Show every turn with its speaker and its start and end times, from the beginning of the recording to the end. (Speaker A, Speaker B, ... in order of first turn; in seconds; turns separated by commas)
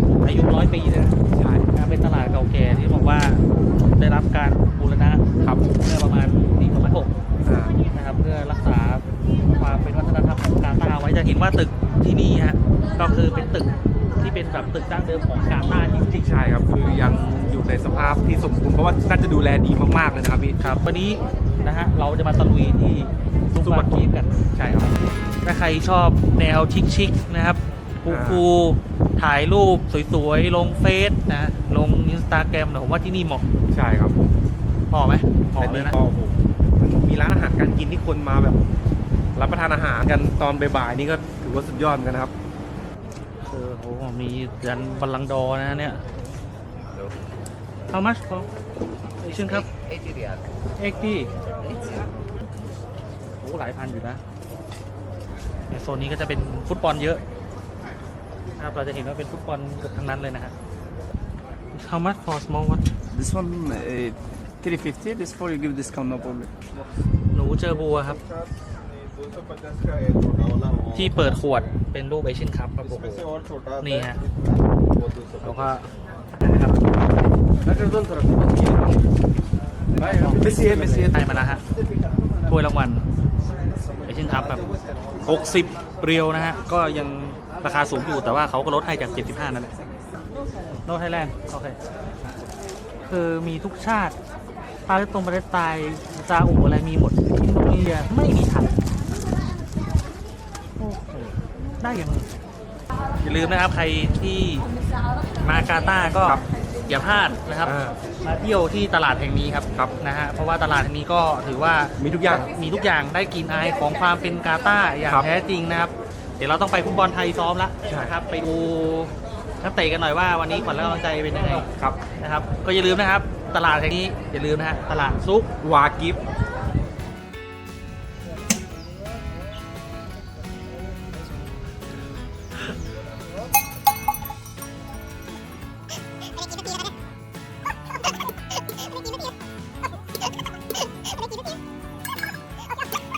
Speaker A: 0.2-1.2, Speaker B: 1.3-1.7, Speaker A: 1.7-3.4, Speaker A: 4.0-7.1, Speaker B: 5.4-5.7, Speaker B: 7.4-7.8, Speaker A: 7.9-9.1, Speaker A: 9.6-16.3, Speaker B: 16.1-20.6, Speaker A: 20.6-24.3, Speaker B: 23.6-24.9, Speaker A: 25.4-33.5, Speaker B: 28.1-28.4, Speaker B: 33.7-34.2, Speaker A: 34.9-35.9, Speaker B: 35.6-38.6, Speaker B: 39.3-42.3, Speaker A: 43.5-46.0, Speaker A: 47.9-48.5, Speaker A: 49.2-49.7, Speaker A: 50.8-51.3, Speaker A: 53.4-54.2, Speaker A: 55.7-57.2, Speaker A: 58.6-60.5, Speaker A: 61.7-62.9, Speaker C: 63.1-66.5, Speaker A: 67.3-68.2, Speaker A: 70.9-74.2, Speaker A: 75.4-75.9, Speaker A: 76.4-77.0, Speaker A: 77.7-78.6, Speaker A: 80.0-81.6, Speaker C: 80.3-81.4, Speaker A: 82.5-83.0, Speaker A: 84.0-84.7, Speaker A: 85.3-89.7, Speaker B: 85.3-85.7, Speaker A: 90.8-91.8, Speaker A: 93.1-94.2, Speaker A: 94.9-98.8, Speaker A: 100.8-102.3, Speaker A: 103.2-104.7, Speaker A: 105.4-121.7, Speaker B: 107.6-108.0, Speaker B: 112.0-112.5, Speaker B: 117.9-118.1, Speaker A: 122.2-125.5, Speaker B: 125.6-126.2